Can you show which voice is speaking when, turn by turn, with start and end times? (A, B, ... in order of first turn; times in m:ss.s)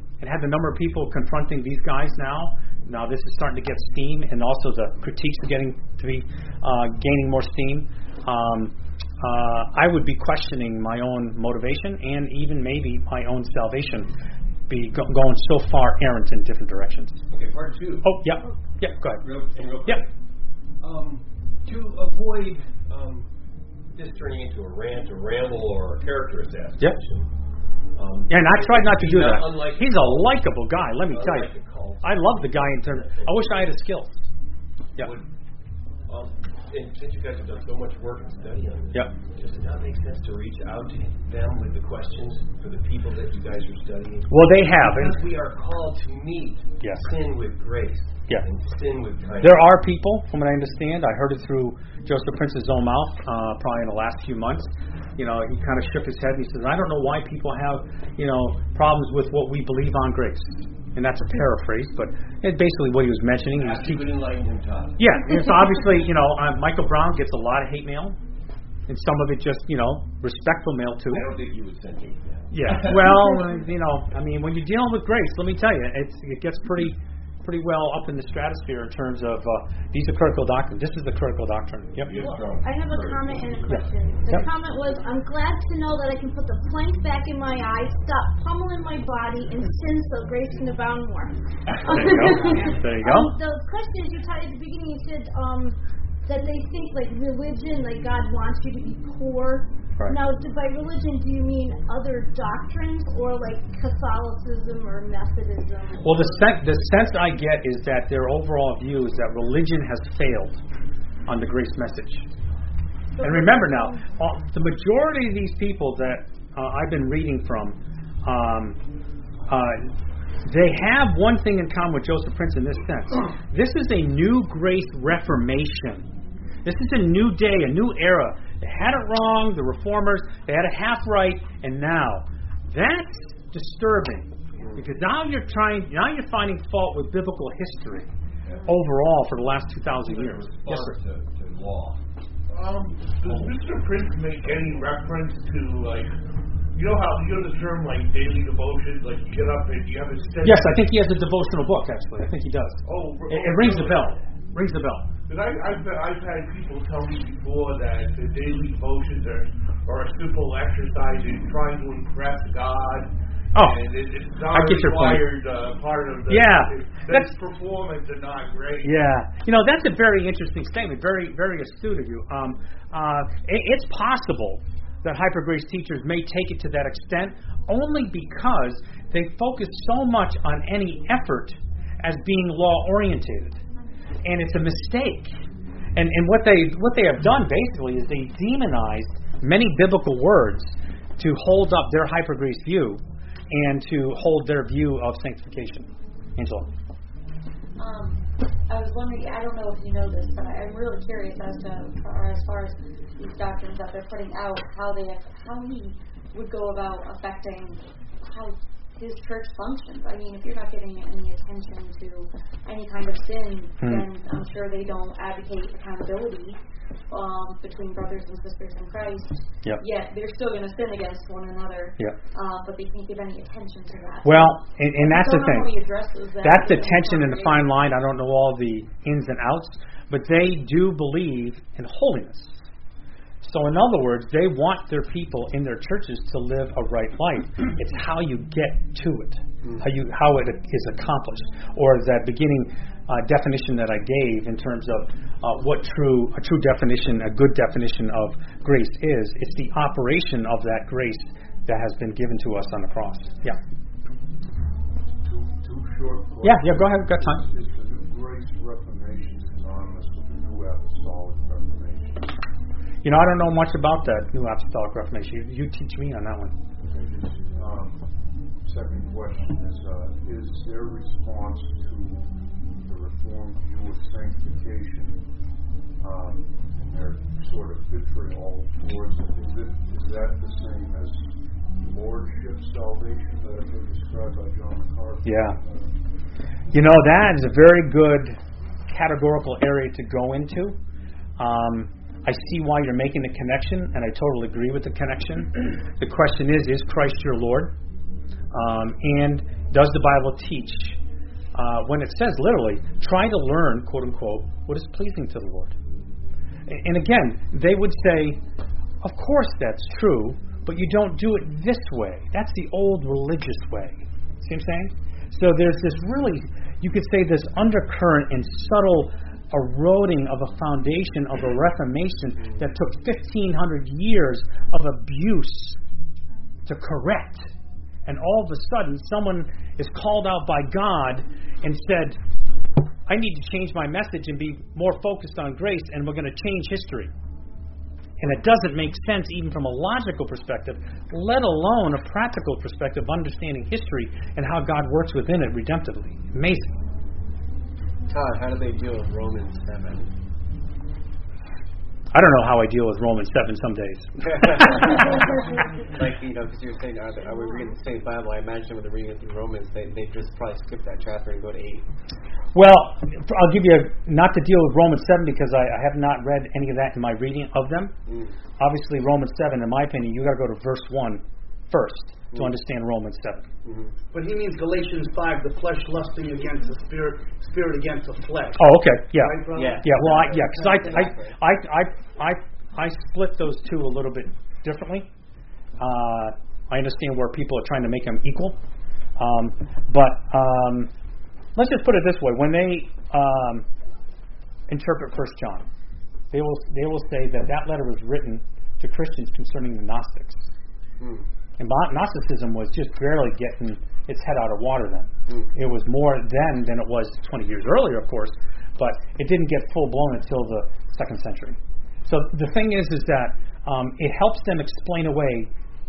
0:00.2-0:14.1 A
0:14.7-0:17.2 A
0:17.3-0:18.2 B
0:18.0-0:19.3 A
0:19.2-0:20.1 B
0:20.8-0:23.3 B
0:23.9-0:27.3 B
0:27.9-0:30.4 B
0:28.3-0:34.2 A
0:31.0-0:33.7 B
0:35.0-0:35.3 B
0:36.1-0:49.6 B
0:44.3-0:45.2 A
0:46.8-0:47.1 A
0:49.4-1:04.1 A
1:03.5-1:05.2 B
1:05.0-1:08.2 A
1:08.9-1:11.3 A
1:11.1-1:13.4 B
1:12.5-1:22.1 A
1:22.0-1:23.4 B
1:22.1-1:46.5 C
1:23.7-1:24.5 A
1:31.9-1:33.3 A
1:46.0-1:50.6 A
1:51.3-1:52.3 A
1:53.2-1:54.0 C
1:53.2-1:58.8 A
1:59.5-1:59.9 A
2:00.4-2:06.1 A
2:06.6-2:18.1 A
2:18.4-2:18.7 B
2:18.6-2:21.0 A
2:20.1-2:22.0 B
2:22.5-2:26.1 D
2:26.7-2:30.8 D
2:30.4-2:35.1 A
2:32.8-2:34.2 D
2:35.3-2:48.9 D
2:44.5-2:45.3 A
2:46.3-2:47.3 A
2:48.8-3:03.6 A
3:04.2-3:05.3 A
3:06.0-3:16.7 A
3:17.8-3:47.7 E
3:44.2-3:45.7 A
3:46.4-3:52.6 A
3:53.4-4:13.6 A
4:15.2-4:22.3 F
4:16.4-4:17.4 A
4:23.0-4:26.6 A
4:26.8-4:28.1 F
4:28.6-4:35.2 F
4:36.0-4:46.0 F
4:45.2-4:45.6 A
4:46.7-4:48.4 A
4:48.9-4:50.8 A
4:51.4-4:57.7 A
4:58.5-5:01.0 A
5:01.5-5:05.7 A
5:06.7-5:08.4 A
5:09.0-5:25.8 A
5:26.7-5:27.5 A
5:28.1-5:32.2 A
5:33.1-5:37.1 A
5:38.2-5:46.8 A
5:48.1-5:50.1 G
5:52.1-5:55.0 A
5:54.2-5:55.2 G
5:55.9-6:01.9 G
6:02.5-6:08.0 A
6:08.1-6:08.3 G
6:08.6-6:13.5 A
6:13.6-6:13.9 G
6:14.1-6:20.9 H
6:18.6-6:25.1 A
6:19.5-6:21.4 G
6:25.8-6:28.6 A
6:29.2-6:30.9 A
6:31.6-6:33.7 A
6:34.7-6:35.7 A
6:36.3-6:40.4 A
6:41.0-6:41.2 G
6:41.6-6:55.5 A